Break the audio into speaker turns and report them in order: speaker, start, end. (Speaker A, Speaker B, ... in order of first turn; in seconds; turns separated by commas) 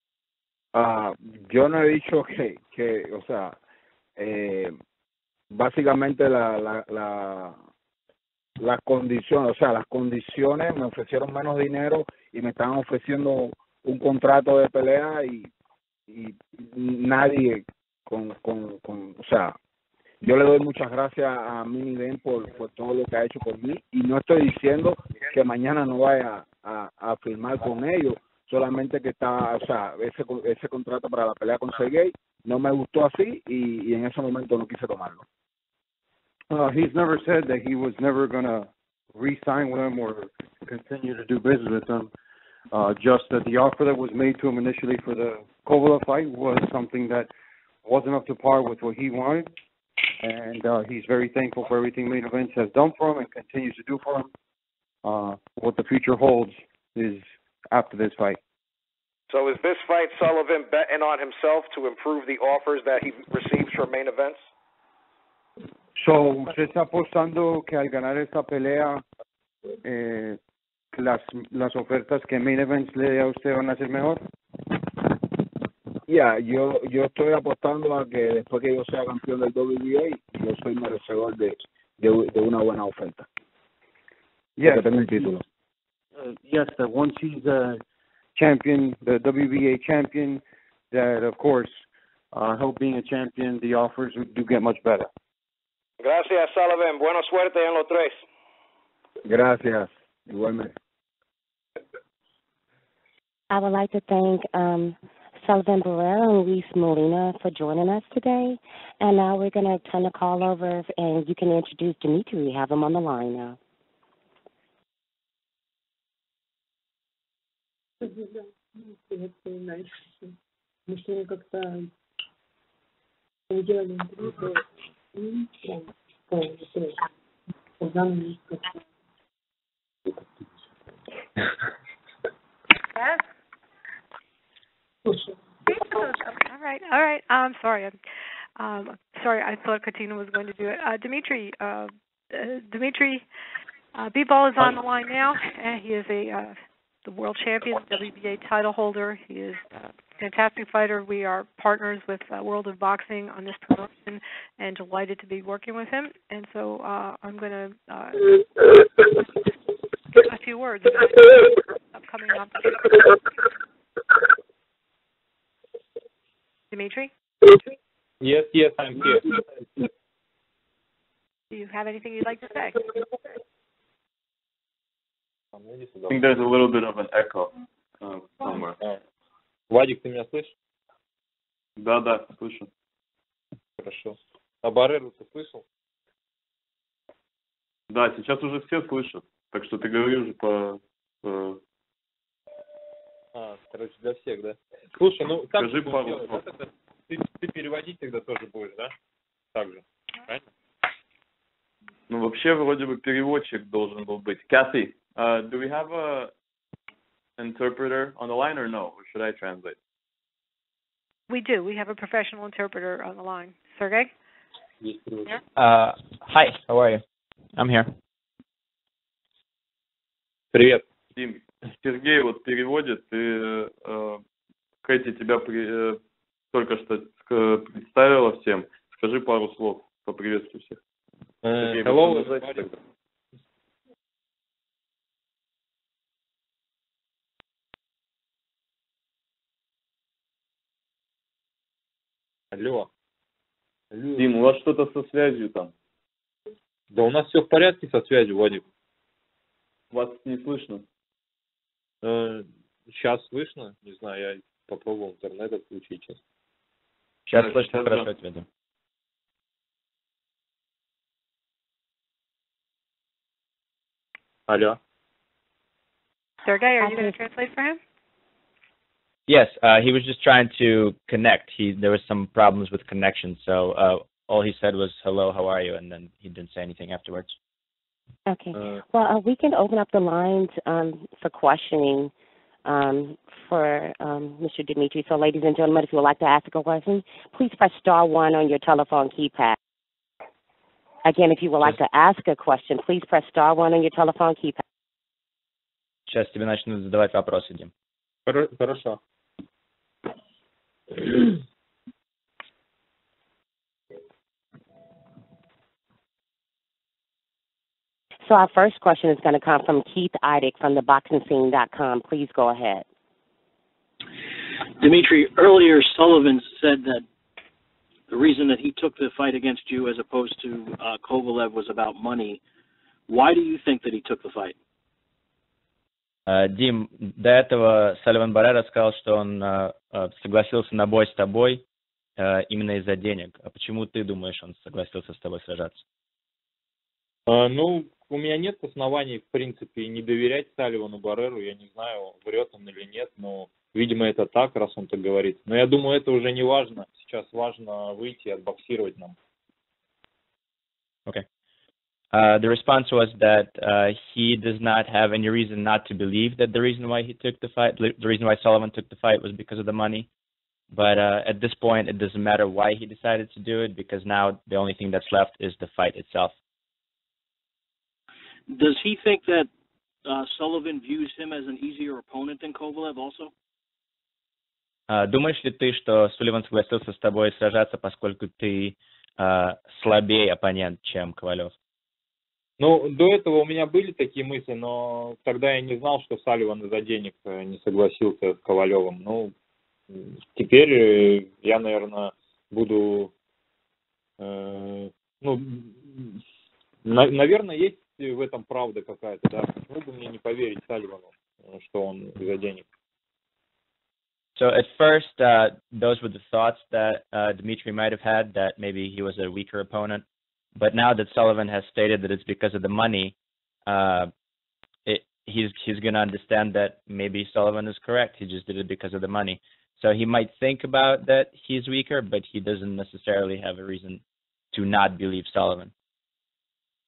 Speaker A: 0.7-3.6, Speaker A: 4.2-4.8, Speaker A: 5.5-7.6, Speaker A: 8.6-15.5, Speaker A: 16.1-19.6, Speaker A: 20.2-35.2, Speaker B: 36.5-42.1, Speaker B: 42.7-47.3, Speaker B: 47.8-49.5, Speaker B: 50.2-54.3, Speaker B: 55.0-58.4, Speaker C: 59.3-64.4, Speaker B: 66.0-69.0, Speaker B: 69.8-70.4, Speaker B: 70.9-74.2, Speaker A: 76.1-83.3, Speaker B: 84.6-85.3, Speaker A: 84.6-85.4, Speaker B: 86.2-87.8, Speaker B: 88.3-95.1, Speaker C: 96.0-98.2, Speaker A: 99.2-100.7, Speaker D: 103.5-113.6, Speaker E: 118.0-120.3, Speaker E: 120.9-121.9, Speaker E: 123.5-127.0, Speaker E: 127.8-128.8, Speaker F: 136.4-137.9, Speaker F: 138.6-143.2, Speaker F: 143.9-158.3, Speaker F: 160.1-162.8, Speaker F: 166.7-167.1, Speaker G: 168.2-169.4, Speaker F: 171.5-172.8, Speaker G: 175.5-176.2, Speaker H: 176.1-178.8, Speaker G: 179.7-180.5, Speaker H: 181.8-182.7, Speaker G: 183.8-185.6, Speaker H: 187.9-191.6, Speaker G: 193.3-198.9, Speaker H: 195.5-196.4, Speaker G: 199.5-200.4, Speaker H: 202.1-206.3, Speaker H: 207.4-209.8, Speaker F: 211.3-214.1, Speaker G: 214.8-215.3, Speaker I: 215.5-217.0, Speaker I: 217.6-217.9, Speaker G: 220.5-220.8, Speaker H: 221.1-224.2, Speaker H: 224.8-226.0, Speaker H: 226.5-230.8, Speaker G: 231.4-232.7, Speaker H: 231.5-232.7, Speaker G: 242.5-242.9, Speaker G: 243.9-244.3, Speaker H: 244.1-245.7, Speaker G: 246.9-248.6, Speaker H: 249.9-250.8, Speaker G: 252.0-256.2, Speaker I: 257.3-258.4, Speaker H: 257.3-258.0, Speaker G: 264.5-264.8, Speaker F: 266.4-267.8, Speaker D: 266.8-267.1, Speaker I: 269.3-277.3, Speaker D: 278.3-282.1, Speaker D: 282.6-289.6, Speaker D: 291.0-294.6, Speaker I: 296.1-297.7, Speaker G: 298.2-299.0, Speaker G: 301.0-301.3, Speaker D: 308.2-312.8, Speaker J: 314.8-317.1, Speaker J: 318.1-322.4, Speaker J: 323.1-324.6, Speaker I: 326.3-331.6, Speaker I: 332.2-335.8, Speaker G: 337.3-349.1, Speaker I: 352.1-360.1, Speaker I: 360.7-366.3, Speaker J: 368.5-369.5, Speaker J: 370.0-373.3, Speaker I: 374.9-381.5, Speaker G: 382.6-389.3, Speaker G: 389.9-393.1, Speaker G: 394.2-396.2, Speaker G: 396.8-402.6, Speaker I: 404.4-410.0, Speaker I: 410.6-413.1, Speaker I: 413.6-414.1, Speaker I: 414.9-424.0, Speaker I: 424.5-425.7